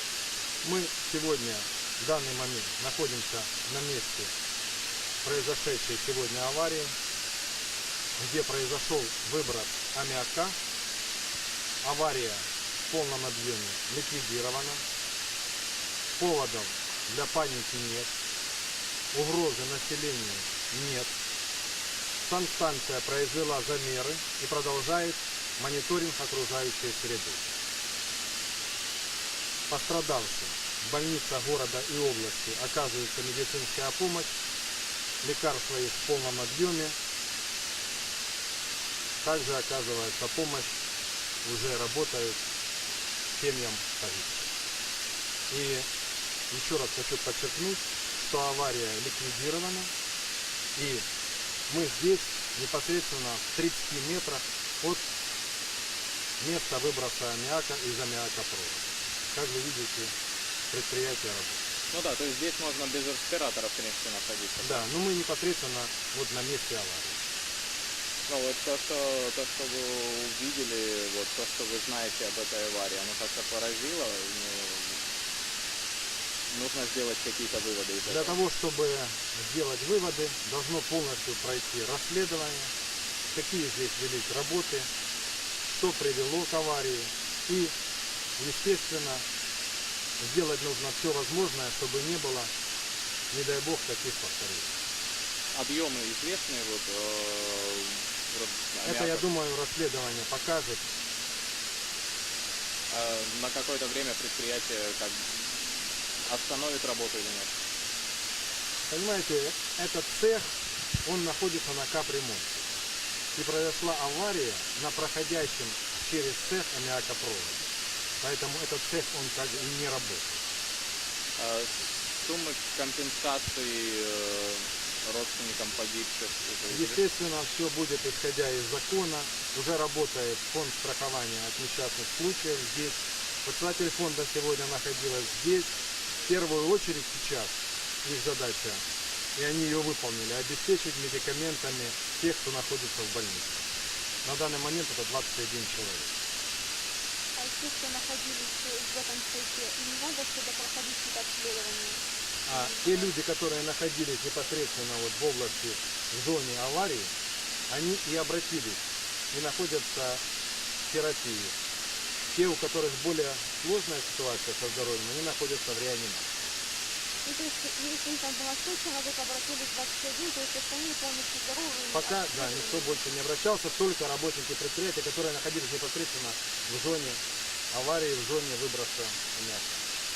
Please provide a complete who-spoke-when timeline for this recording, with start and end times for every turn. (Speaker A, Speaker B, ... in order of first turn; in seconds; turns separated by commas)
Speaker A: 0.6-4.3, Speaker A: 5.2-7.0, Speaker A: 8.1-10.6, Speaker A: 11.8-14.8, Speaker A: 16.2-18.1, Speaker A: 19.1-21.1, Speaker A: 22.2-27.5, Speaker A: 29.7-34.4, Speaker A: 35.2-37.0, Speaker A: 39.2-40.8, Speaker A: 41.4-42.4, Speaker A: 43.3-44.5, Speaker A: 45.5-45.9, Speaker A: 46.5-49.9, Speaker A: 50.7-51.1, Speaker A: 51.7-55.1, Speaker A: 56.4-60.1, Speaker A: 60.7-61.6, Speaker B: 61.9-64.8, Speaker A: 64.6-67.2, Speaker B: 68.2-75.1, Speaker B: 76.5-78.4, Speaker A: 78.0-82.7, Speaker A: 83.3-84.9, Speaker A: 85.6-87.7, Speaker A: 88.4-89.2, Speaker A: 90.2-92.5, Speaker A: 93.3-94.8, Speaker B: 95.5-99.3, Speaker A: 98.8-100.9, Speaker B: 102.9-107.6, Speaker A: 108.8-112.7, Speaker A: 113.3-117.7, Speaker A: 118.2-120.4, Speaker B: 121.3-127.0, Speaker A: 126.7-143.7, Speaker A: 144.2-146.2, Speaker C: 147.3-153.1, Speaker A: 152.5-157.1, Speaker A: 157.7-160.2, Speaker A: 160.9-161.6, Speaker A: 162.3-166.3, Speaker C: 167.2-173.0, Speaker A: 171.9-179.8